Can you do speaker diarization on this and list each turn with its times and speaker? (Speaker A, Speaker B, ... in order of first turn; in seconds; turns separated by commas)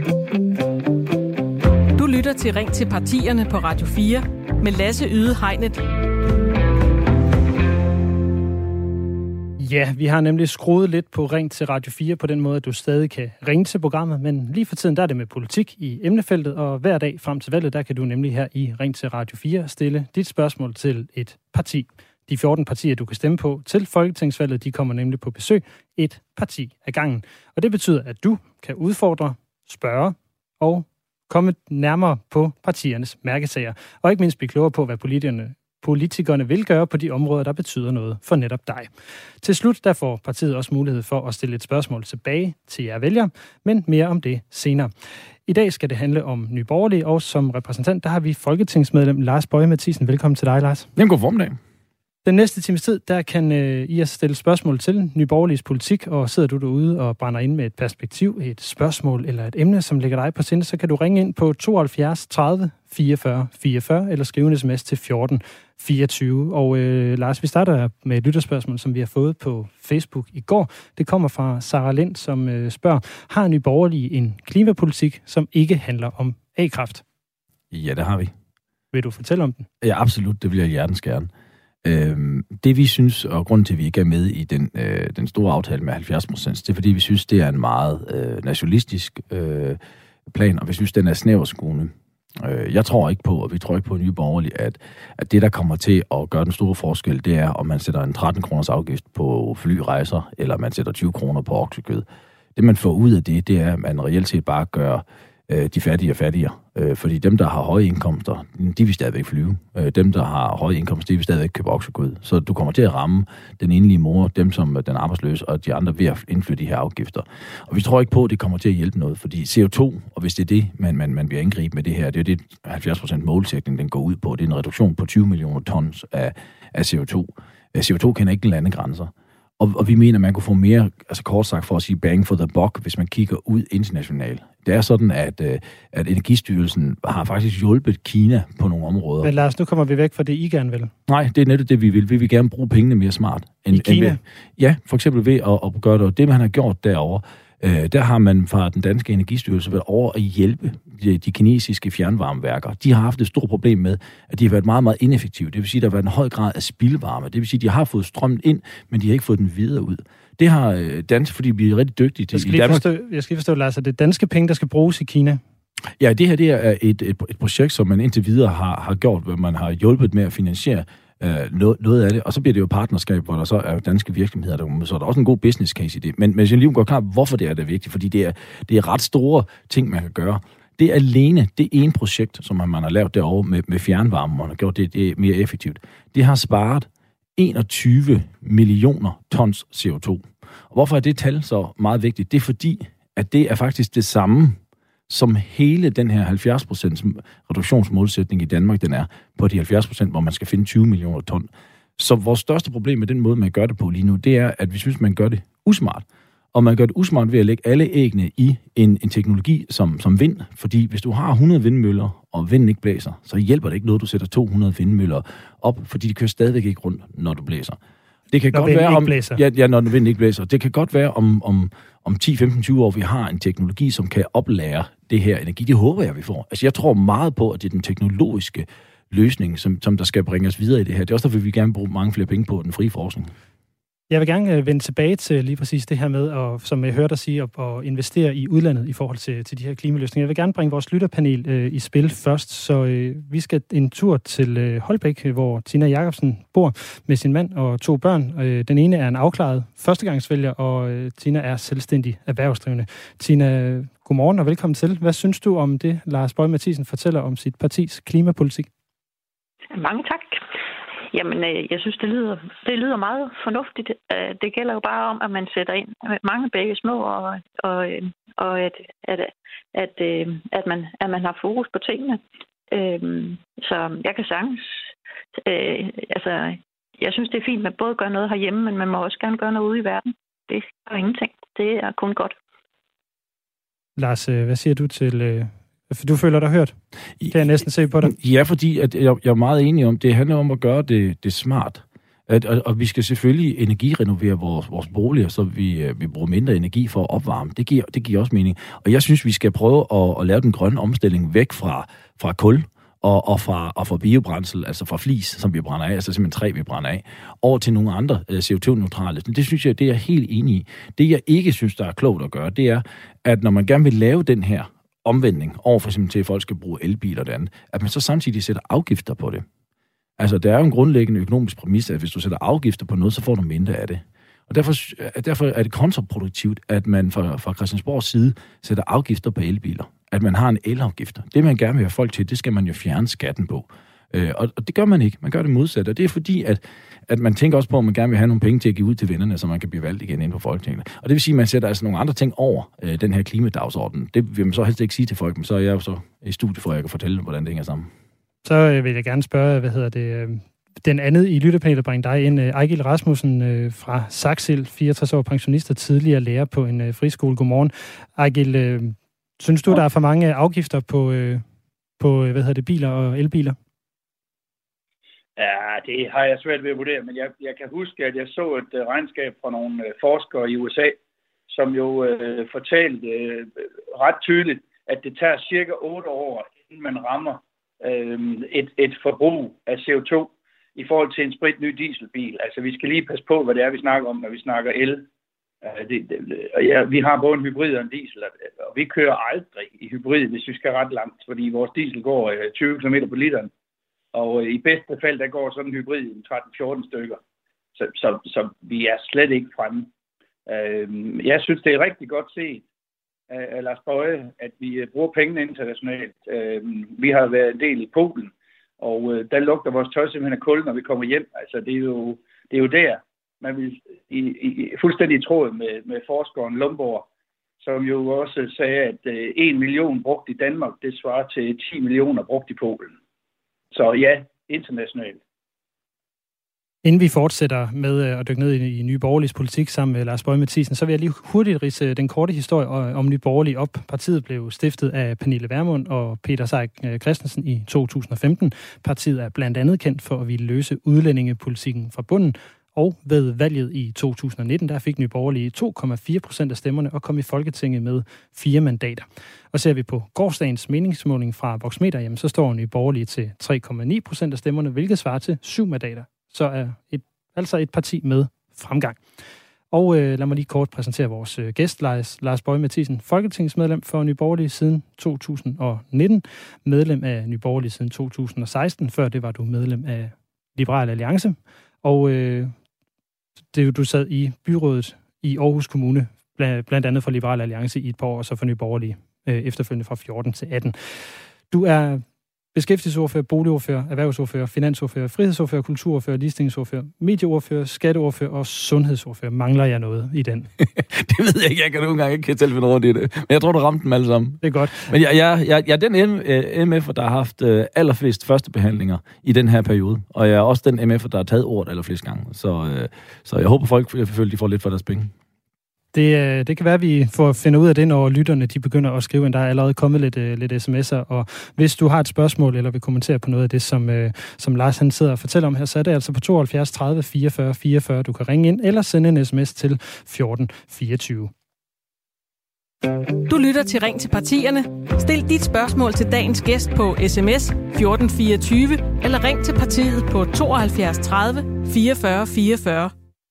Speaker A: 1.9-5.8, Speaker B: 9.6-44.9, Speaker B: 45.5-50.9, Speaker C: 51.0-51.6, Speaker B: 52.2-77.0, Speaker C: 77.7-78.3, Speaker B: 78.9-79.7, Speaker C: 79.8-81.3, Speaker C: 81.8-139.3, Speaker B: 139.2-140.9, Speaker C: 141.1-162.8, Speaker B: 143.7-144.2, Speaker B: 162.3-165.4, Speaker C: 166.0-217.8, Speaker C: 218.3-233.3, Speaker B: 218.5-219.4, Speaker B: 234.1-258.7, Speaker D: 259.7-260.4, Speaker D: 261.1-282.3, Speaker B: 284.0-286.7, Speaker B: 287.3-288.1, Speaker C: 288.0-319.4, Speaker C: 320.2-347.9, Speaker B: 348.4-361.4, Speaker B: 362.0-363.6, Speaker E: 365.4-371.0, Speaker E: 371.5-385.0, Speaker E: 385.6-393.5, Speaker E: 394.1-397.2, Speaker E: 397.8-399.9, Speaker E: 400.5-402.6, Speaker E: 403.3-417.1, Speaker E: 417.6-422.9, Speaker E: 423.7-425.2, Speaker B: 426.8-459.0, Speaker B: 459.7-472.5, Speaker B: 473.5-490.5, Speaker C: 490.6-505.1, Speaker B: 494.4-494.9, Speaker B: 505.9-521.3, Speaker A: 523.3-532.9